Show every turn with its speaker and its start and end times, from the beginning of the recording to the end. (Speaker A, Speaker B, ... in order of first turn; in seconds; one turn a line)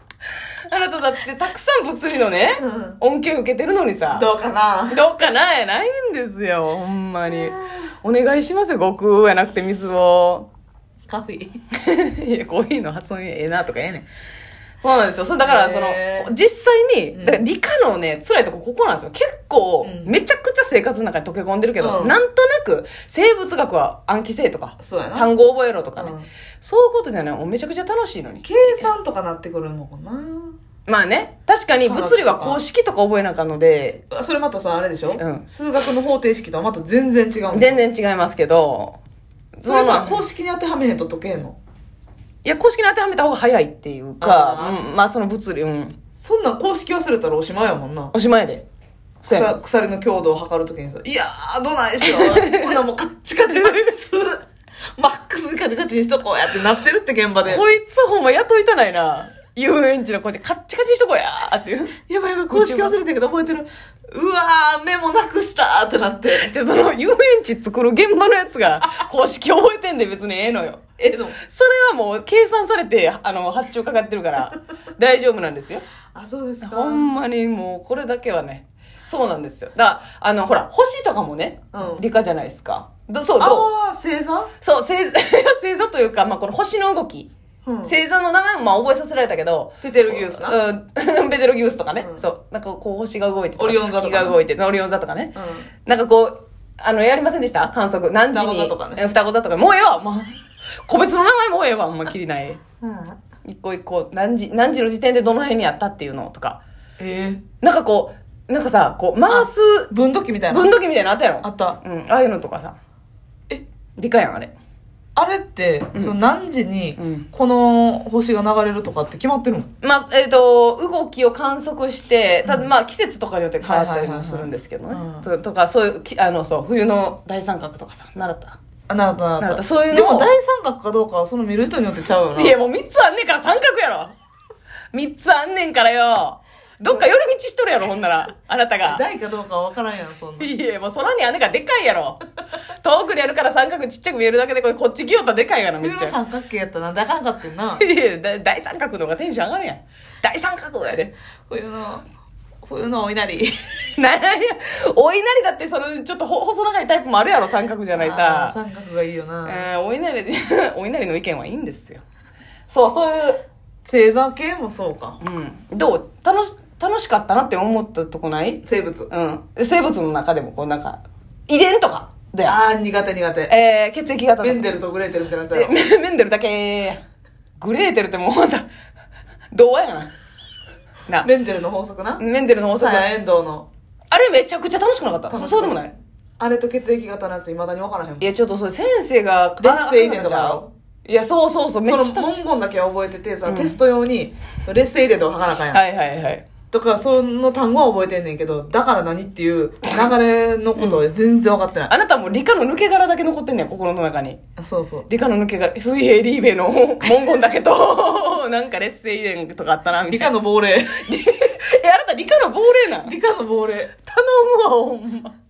Speaker A: 0.7-4.3
Speaker B: 2.6-3.0
Speaker B: 4.1-5.0
Speaker A: 4.9-10.5
Speaker B: 7.3-7.8
Speaker B: 11.1-11.6
Speaker A: 11.7-14.1
Speaker A: 14.8-28.9
Speaker B: 15.4-16.3
Speaker B: 17.1-17.4
Speaker B: 19.8-20.1
Speaker B: 21.8-22.2
Speaker B: 24.8-25.3
Speaker B: 26.0-26.3
Speaker B: 28.4-30.5
Speaker A: 30.9-34.0
Speaker B: 31.8-32.6
Speaker B: 34.1-37.8
Speaker A: 35.2-35.4
Speaker A: 37.5-39.0
Speaker A: 39.6-40.2
Speaker B: 39.6-41.6
Speaker A: 42.4-46.0
Speaker B: 44.2-44.8
Speaker B: 46.2-48.1
Speaker A: 48.1-48.6
Speaker A: 49.2-49.5
Speaker B: 49.2-54.4
Speaker A: 52.0-52.8
Speaker A: 53.5-53.9
Speaker B: 55.0-57.6
Speaker A: 57.4-62.0
Speaker B: 62.1-66.5
Speaker A: 62.5-63.0
Speaker A: 66.4-70.8
Speaker B: 71.0-71.3
Speaker A: 71.4-75.8
Speaker B: 76.1-77.1
Speaker A: 76.6-83.7
Speaker B: 81.7-82.0
Speaker B: 83.4-84.5
Speaker A: 84.6-87.3
Speaker B: 87.6-88.0
Speaker A: 87.8-95.3
Speaker B: 89.8-90.6
Speaker B: 92.0-92.2
Speaker B: 93.6-94.4
Speaker B: 95.3-95.7
Speaker A: 95.8-100.3
Speaker B: 98.3-99.0
Speaker A: 100.8-102.6
Speaker B: 102.8-103.2
Speaker A: 103.4-106.6
Speaker B: 107.0-107.4
Speaker A: 107.6-109.9
Speaker B: 109.3-110.7
Speaker A: 110.5-112.8
Speaker B: 111.4-111.8
Speaker A: 114.0-114.5
Speaker B: 115.1-119.7
Speaker A: 117.0-117.2
Speaker A: 119.8-128.6
Speaker B: 122.4-122.7
Speaker B: 123.6-125.3
Speaker B: 128.9-132.6
Speaker A: 129.4-130.3
Speaker A: 132.3-134.1
Speaker A: 134.9-139.0
Speaker B: 138.8-140.5
Speaker A: 140.4-142.2
Speaker A: 142.8-146.2
Speaker B: 145.8-147.8
Speaker A: 147.8-151.1
Speaker B: 151.5-152.1
Speaker B: 152.6-153.5
Speaker A: 153.9-158.6
Speaker B: 157.9-159.7
Speaker A: 159.4-162.0
Speaker A: 162.7-163.4
Speaker B: 163.8-165.2
Speaker A: 165.2-172.6
Speaker B: 168.6-169.1
Speaker B: 172.4-173.5
Speaker A: 173.5-174.7
Speaker B: 174.4-175.7
Speaker A: 175.5-177.0
Speaker A: 177.6-178.7
Speaker A: 179.5-180.1
Speaker B: 181.2-183.7
Speaker A: 182.2-183.1
Speaker A: 184.1-185.9
Speaker B: 185.3-188.3
Speaker A: 188.2-192.3
Speaker B: 189.6-190.7
Speaker B: 191.8-195.8
Speaker A: 193.4-193.8
Speaker A: 195.7-196.4
Speaker B: 196.7-201.9
Speaker A: 201.9-204.4
Speaker B: 204.6-205.1
Speaker A: 205.1-210.3
Speaker B: 210.1-211.1
Speaker A: 210.9-213.1
Speaker B: 213.1-213.9
Speaker A: 214.0-215.3